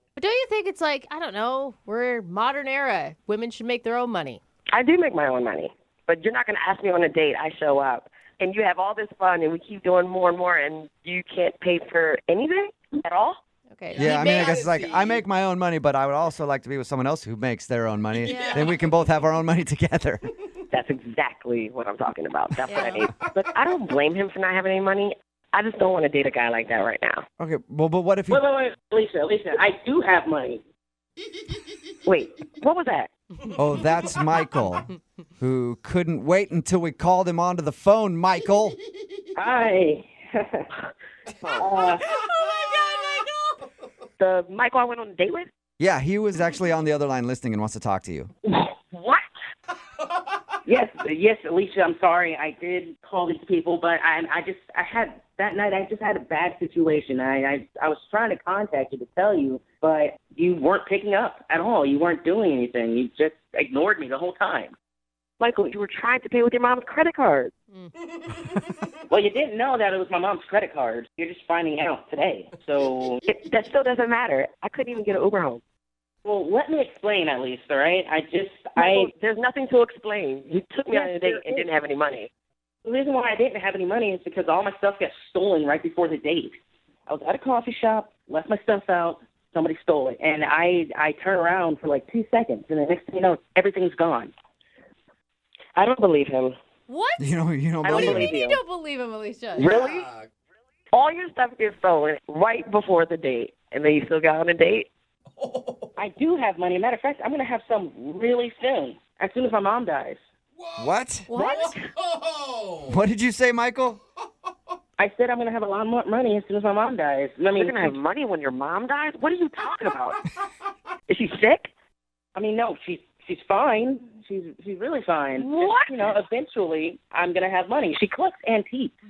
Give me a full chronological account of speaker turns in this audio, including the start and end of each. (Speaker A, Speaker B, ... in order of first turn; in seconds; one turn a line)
Speaker A: 0.2-4.4
Speaker B: 4.7-13.4
Speaker A: 13.7-14.6
Speaker C: 13.9-15.2
Speaker D: 13.9-20.3
Speaker C: 18.1-19.0
Speaker A: 18.3-18.8
Speaker B: 20.7-27.2
Speaker A: 22.7-23.1
Speaker D: 27.4-28.4
Speaker E: 28.3-30.6
Speaker B: 32.0-33.1
Speaker D: 33.5-38.8
Speaker E: 39.4-40.7
Speaker B: 41.4-41.7
Speaker E: 41.6-42.0
Speaker A: 42.0-43.6
Speaker C: 42.4-43.2
Speaker B: 44.2-45.5
Speaker D: 45.8-48.3
Speaker B: 48.9-49.2
Speaker E: 50.7-64.7
Speaker B: 65.4-67.5
Speaker A: 67.7-68.4
Speaker C: 68.1-68.5
Speaker E: 69.1-73.2
Speaker B: 73.2-75.6
Speaker E: 76.2-79.1
Speaker B: 78.8-82.3
Speaker E: 80.9-81.7
Speaker E: 82.8-94.3
Speaker B: 95.8-96.5
Speaker A: 96.9-97.3
Speaker D: 97.2-98.3
Speaker B: 97.8-98.6
Speaker A: 97.9-99.8
Speaker B: 99.6-100.1
Speaker C: 99.7-100.3
Speaker B: 100.9-104.9
Speaker C: 105.3-105.9
Speaker E: 106.0-110.2
Speaker C: 110.6-110.9
Speaker D: 110.8-111.3
Speaker A: 111.3-111.8
Speaker B: 111.3-111.8
Speaker C: 111.5-113.0
Speaker D: 112.9-114.0
Speaker E: 115.0-118.0
Speaker B: 117.5-120.2
Speaker B: 121.1-121.7
Speaker E: 122.3-129.0
Speaker B: 125.4-125.9